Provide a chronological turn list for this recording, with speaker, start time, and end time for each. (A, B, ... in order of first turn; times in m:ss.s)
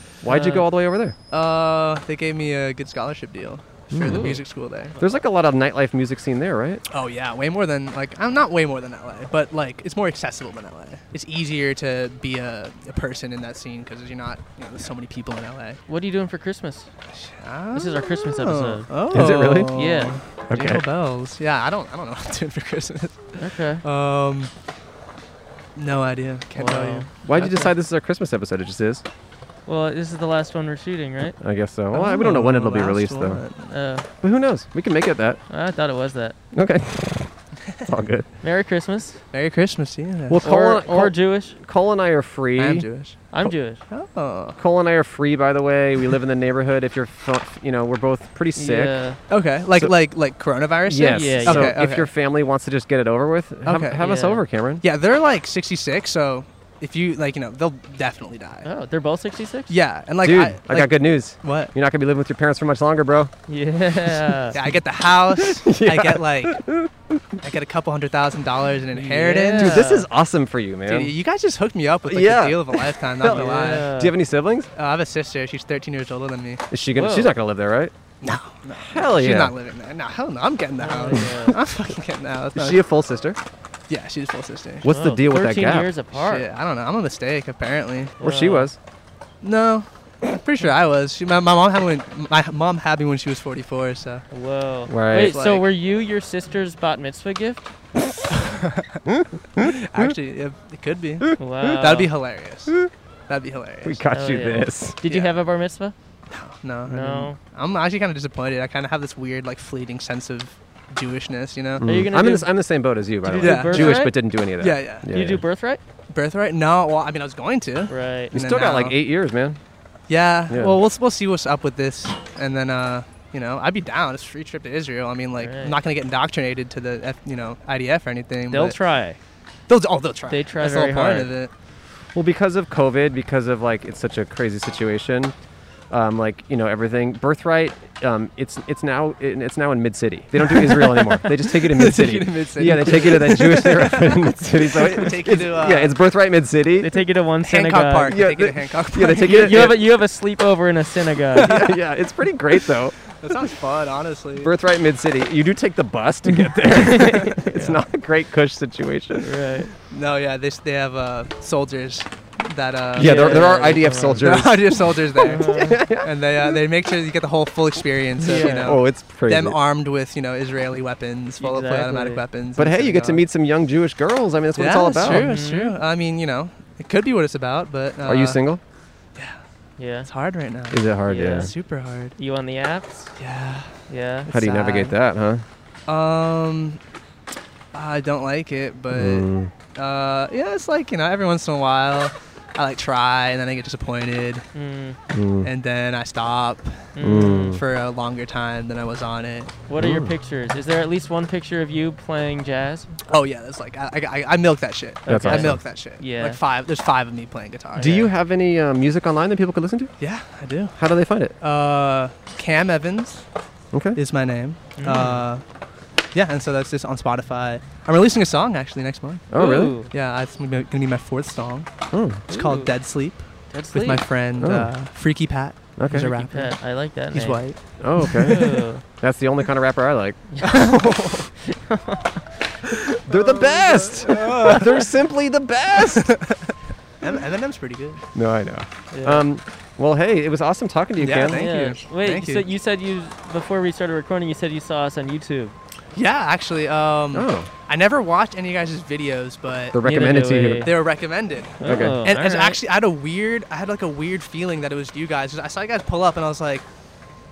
0:00.2-0:01.2 A
0:00.3-0:00.6 B
0:01.3-0:05.0 C
0:03.9-0:04.4 A
0:04.0-0:04.4 B
0:05.0-0:06.8 A
0:06.9-0:15.8 C
0:15.9-0:16.9 B
0:17.1-0:24.5 C
0:17.7-0:20.2 B
0:19.1-0:19.7 A
0:20.5-0:20.8 A
0:23.4-0:23.8 B
0:25.8-0:27.6 C
0:26.6-0:27.5 B
0:27.2-0:29.0 A
0:29.7-0:31.4 B
0:31.4-0:33.4 A
0:31.9-0:33.7 C
0:33.7-0:34.0 B
0:34.2-0:35.4 A
0:35.5-0:36.4 B
0:36.5-0:38.3 A
0:38.4-0:39.2 B
0:39.3-0:40.4 C
0:40.3-0:42.9 A
0:40.4-0:41.6 B
0:42.6-0:43.2 C
0:43.3-0:43.8 B
0:43.9-0:44.6 C
0:44.6-0:48.9 A
0:48.6-0:49.2 B
0:49.3-0:52.1 C
0:50.8-0:54.8 A
0:51.1-0:51.7 B
0:53.6-0:54.0 C
0:54.0-0:54.4 B
0:54.8-0:58.7 C
0:58.6-0:59.7 B
0:59.7-1:01.7 C
1:00.2-1:03.3 A
1:03.5-1:04.6 B
1:04.5-1:06.6 C
1:05.4-1:07.2 A
1:07.4-1:09.9 C
1:08.9-1:10.0 B
1:09.6-1:11.1 A
1:10.9-1:13.9 C
1:12.0-1:14.7 A
1:13.2-1:14.1 B
1:14.8-1:16.6 C
1:16.7-1:17.9 A
1:17.0-1:17.3 B
1:18.2-1:22.8 C
1:18.8-1:19.5 A
1:20.8-1:21.6 B
1:22.5-1:23.4 A
1:23.9-1:24.8 C
1:24.8-1:25.9 A
1:24.9-1:26.4 B
1:26.1-1:28.2 C
1:28.2-1:28.7 B
1:28.2-1:28.8 A
1:29.4-1:34.2 C
1:34.3-1:37.6 B
1:34.9-1:35.4 A
1:35.2-1:35.7 C
1:38.3-1:39.0 C
1:39.0-1:40.1 A
1:39.6-1:42.8 C
1:41.2-1:41.8 A
1:41.4-1:42.1 B
1:43.3-1:44.0 C
1:43.8-1:45.0 A
1:44.1-1:45.9 B
1:45.1-1:45.4 C
1:46.3-1:51.8 C
1:46.9-1:47.4 B
1:51.8-1:55.4 A
1:51.8-1:52.5 B
1:53.2-1:54.1 B
1:53.4-1:55.1 C
1:55.1-1:55.8 B
1:56.1-1:59.0 C
1:57.9-1:58.3 B
1:58.3-1:59.6 A
2:00.1-2:08.8 C
2:00.5-2:00.8 A
2:05.4-2:05.7 B
2:08.5-2:09.2 B
2:09.7-2:11.5 C
2:10.3-2:11.3 B
2:12.1-2:15.3 A
2:15.9-2:26.9 A
2:20.4-2:26.0 C
2:26.8-2:28.2 B
2:27.4-2:29.8 C
2:28.1-2:29.8 A
2:29.2-2:31.6 B
2:31.4-2:31.8 C
2:31.4-2:33.0 A
2:33.1-2:34.5 C
2:34.4-2:39.3 A
2:36.3-2:37.7 B
2:39.2-2:39.7 B
2:39.9-2:53.2 C
2:42.9-2:46.1 A
2:43.0-2:44.2 B
2:45.2-2:45.8 B
2:48.2-2:48.7 B
2:48.2-2:49.6 A
2:51.4-2:52.2 B
2:52.6-2:55.3 A
2:54.6-2:58.4 C
2:55.0-2:55.7 B
2:58.0-2:58.6 A
2:59.8-3:00.1 B
3:00.0-3:02.1 C
3:00.7-3:01.5 A
3:01.1-3:01.5 B
3:02.2-3:03.1 B
3:03.2-3:04.9 C
3:03.9-3:04.3 B
3:04.3-3:05.4 A
3:05.9-3:06.8 C
3:07.7-3:14.4 C
3:08.9-3:09.5 A
3:14.5-3:15.0 B
3:15.1-3:15.5 A
3:15.4-3:19.5 C
3:17.0-3:17.6 B
3:17.0-3:17.6 A
3:19.7-3:22.9 B
3:19.8-3:20.1 A
3:23.1-3:28.1 C
3:25.0-3:26.4 B
3:25.1-3:25.6 A
3:27.8-3:29.9 A
3:27.8-3:28.0 B
3:30.0-3:30.8 C
3:30.8-3:31.3 A
3:31.4-3:33.2 C
3:33.7-3:34.0 A
3:33.9-3:35.4 C
3:34.8-3:35.2 B
3:36.1-3:39.3 C
3:39.3-3:39.8 A
3:39.3-3:39.9 B
3:39.9-3:41.7 C
3:41.9-3:42.2 A
3:42.3-3:46.6 C
3:42.3-3:42.7 B
3:43.5-3:44.0 B
3:44.4-3:44.7 A
3:45.8-3:46.1 A
3:45.9-3:47.4 B
3:47.1-3:48.3 C
3:47.8-3:51.3 A
3:48.1-3:48.8 B
3:50.3-3:50.8 B
3:50.5-3:50.8 C
3:51.4-3:52.2 B
3:52.7-3:54.9 C
3:53.0-3:56.2 A
3:55.8-3:58.0 C
3:58.1-4:01.7 A
3:58.9-3:59.2 B
4:01.0-4:02.5 C
4:01.3-4:05.5 B
4:05.9-4:09.8 C
4:07.1-4:07.5 A
4:09.7-4:10.7 A
4:09.8-4:10.7 B
4:10.6-4:16.6 C
4:11.6-4:12.6 B
4:11.6-4:12.0 A